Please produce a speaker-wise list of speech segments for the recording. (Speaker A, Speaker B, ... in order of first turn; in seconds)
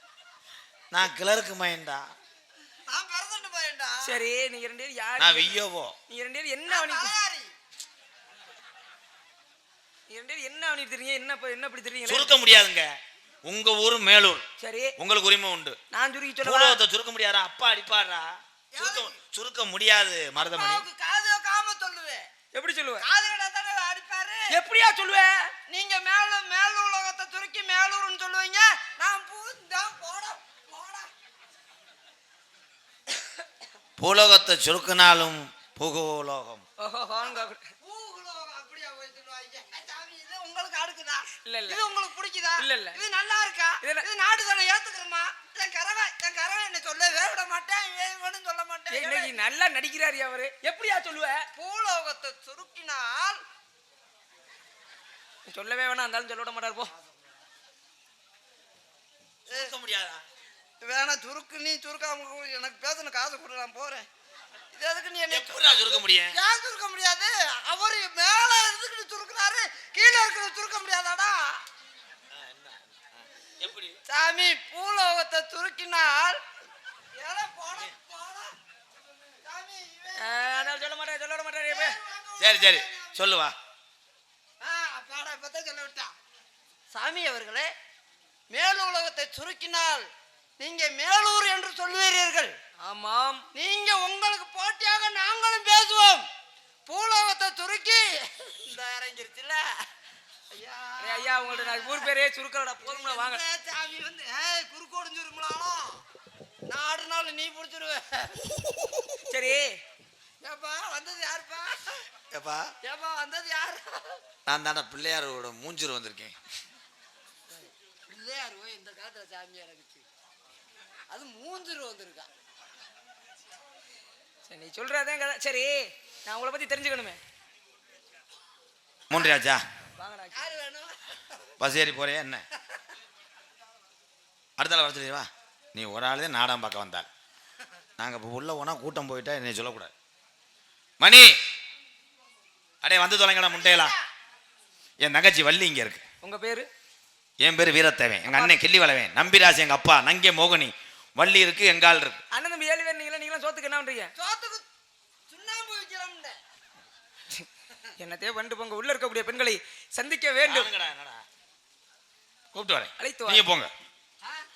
Speaker A: 0.9-2.1, 5.2-6.0, 12.1-12.9, 13.4-14.4, 15.0-15.8, 16.4-20.8, 34.0-36.6, 59.5-60.2, 65.3-66.4, 72.3-74.0, 82.4-83.5, 112.3-112.7, 114.5-116.3, 129.1-129.6, 131.6-132.5, 134.6-137.1, 138.0-139.9, 141.0-141.3, 142.8-143.9, 145.0-146.0, 147.4-152.2, 160.4-161.2, 162.5-163.7
Speaker B: 2.9-4.2, 6.7-7.5, 18.7-19.2, 20.5-22.3, 23.0-24.5, 25.7-31.1, 37.2-49.3, 51.5-53.4, 60.8-64.1, 64.7-71.6, 74.1-76.4, 77.2-78.5, 79.5-80.8, 81.7-83.2, 84.6-86.1, 86.9-87.7, 88.5-90.1, 90.6-92.5, 93.5-96.2, 96.9-99.7, 100.5-102.1, 102.8-106.0, 106.7-108.6, 110.4-112.0, 112.8-114.2, 117.5-120.0, 121.1-122.3, 130.3-131.2, 143.6-144.0, 154.2-154.7, 155.3-156.4
Speaker C: 4.0-5.6, 6.1-7.1, 10.1-12.3, 14.6-14.9, 15.9-16.8, 22.5-23.1, 24.5-25.5, 36.8-37.6, 41.5-41.8, 42.6-43.0, 48.9-51.5, 55.5-56.9, 80.2-82.0, 92.8-93.5, 101.0-103.4, 109.3-109.8, 124.5-127.2, 130.0-130.5, 146.2-146.7, 148.2-148.6, 152.3-154.1, 158.0-160.7, 163.0-163.5